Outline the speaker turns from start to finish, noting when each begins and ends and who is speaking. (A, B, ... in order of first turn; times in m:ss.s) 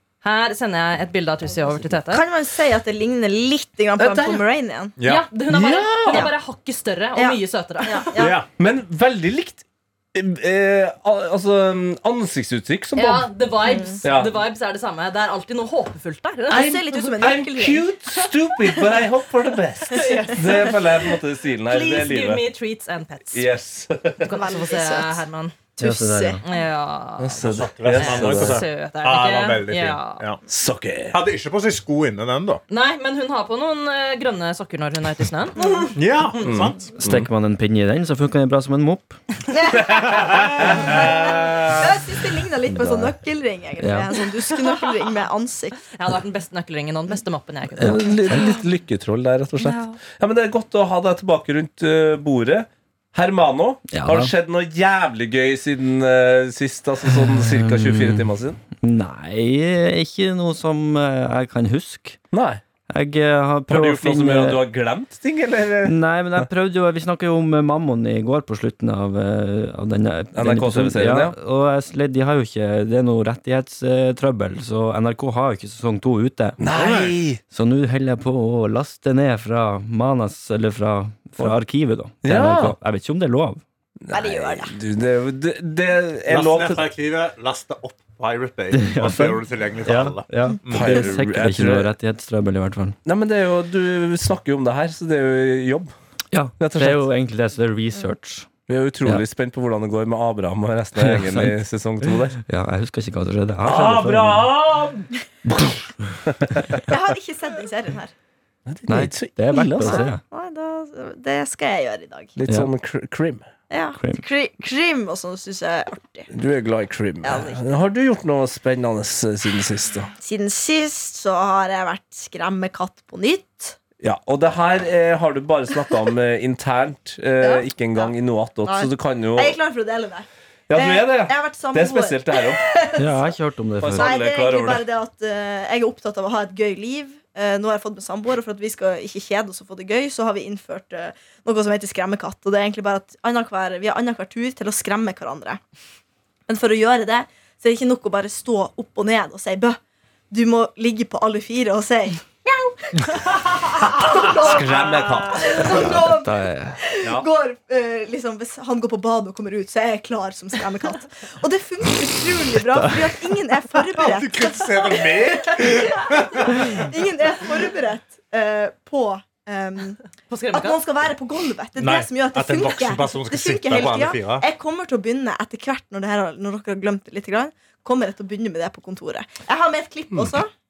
0:00.2-0:02.2 A
0:02.0-0:05.0 B
0:04.0-0:04.4 C
0:05.0-0:05.3 D
0:05.0-0:08.1 A
0:05.5-0:06.3 C
0:07.1-0:08.4 B
0:08.2-0:08.4 D
0:08.6-0:13.3 C
0:12.9-0:17.3 A
0:13.6-0:14.0 B
0:14.0-0:14.4 C
0:16.5-0:18.8 B
0:16.5-0:22.4 C
0:19.9-0:20.8 A
0:20.0-0:20.7 B
0:21.7-0:23.4 A
0:23.3-0:24.3 C
0:24.2-0:25.5 A
0:24.3-0:25.2 B
0:25.8-0:26.4 B
0:25.8-0:26.4 E
0:26.4-0:30.2 A
0:27.2-0:28.6 C
0:27.4-0:30.4 D
0:30.5-0:31.2 C
0:31.1-0:32.6 D
0:32.7-0:35.9 A
0:35.6-0:35.9 B
0:35.9-0:36.9 D
0:36.4-0:37.3 C
0:37.0-0:39.2 E
0:39.5-0:45.8 B
0:40.1-0:40.4 D
0:40.6-0:41.8 C
0:42.7-0:43.1 C
0:43.8-0:44.1 E
0:45.9-0:48.2 A
0:47.8-0:58.6 C
0:53.9-0:54.3 E
0:57.1-0:58.3 E
0:58.8-1:02.2 E
1:02.3-1:02.6 C
1:02.9-1:04.6 E
1:03.7-1:06.5 C
1:05.8-1:16.6 E
1:10.3-1:11.4 C
1:16.6-1:17.4 C
1:16.7-1:17.1 D
1:17.5-1:23.6 E
1:22.2-1:22.8 C
1:24.0-1:26.8 C
1:24.1-1:24.8 B
1:26.3-1:31.1 D
1:28.7-1:33.0 E
1:30.7-1:31.9 C
1:33.0-1:35.9 C
1:36.3-1:38.5 E
1:36.6-1:37.1 C
1:38.7-1:42.4 C
1:41.0-1:44.5 E
1:43.6-1:46.8 C
1:46.8-1:48.1 B
1:48.6-1:50.1 C
1:48.9-1:50.2 E
1:49.7-1:52.3 B
1:52.4-1:53.5 C
1:53.7-1:56.3 B
1:54.0-1:54.2 E
1:56.3-2:00.1 C
1:57.2-1:57.6 B
2:00.2-2:03.8 B
2:04.0-2:09.6 C
2:07.4-2:08.1 B
2:08.6-2:13.3 B
2:10.7-2:12.6 C
2:13.0-2:14.1 E
2:13.8-2:14.8 C
2:13.9-2:25.6 B
2:26.5-2:29.8 B
2:30.3-2:50.0 B
2:34.1-2:36.0 C
2:34.7-2:35.3 D
2:35.8-2:36.8 E
2:37.0-2:37.2 C
2:42.7-2:43.1 E
2:43.9-2:46.9 D
2:50.3-2:50.8 A
2:50.5-3:00.5 B
2:51.8-2:54.4 D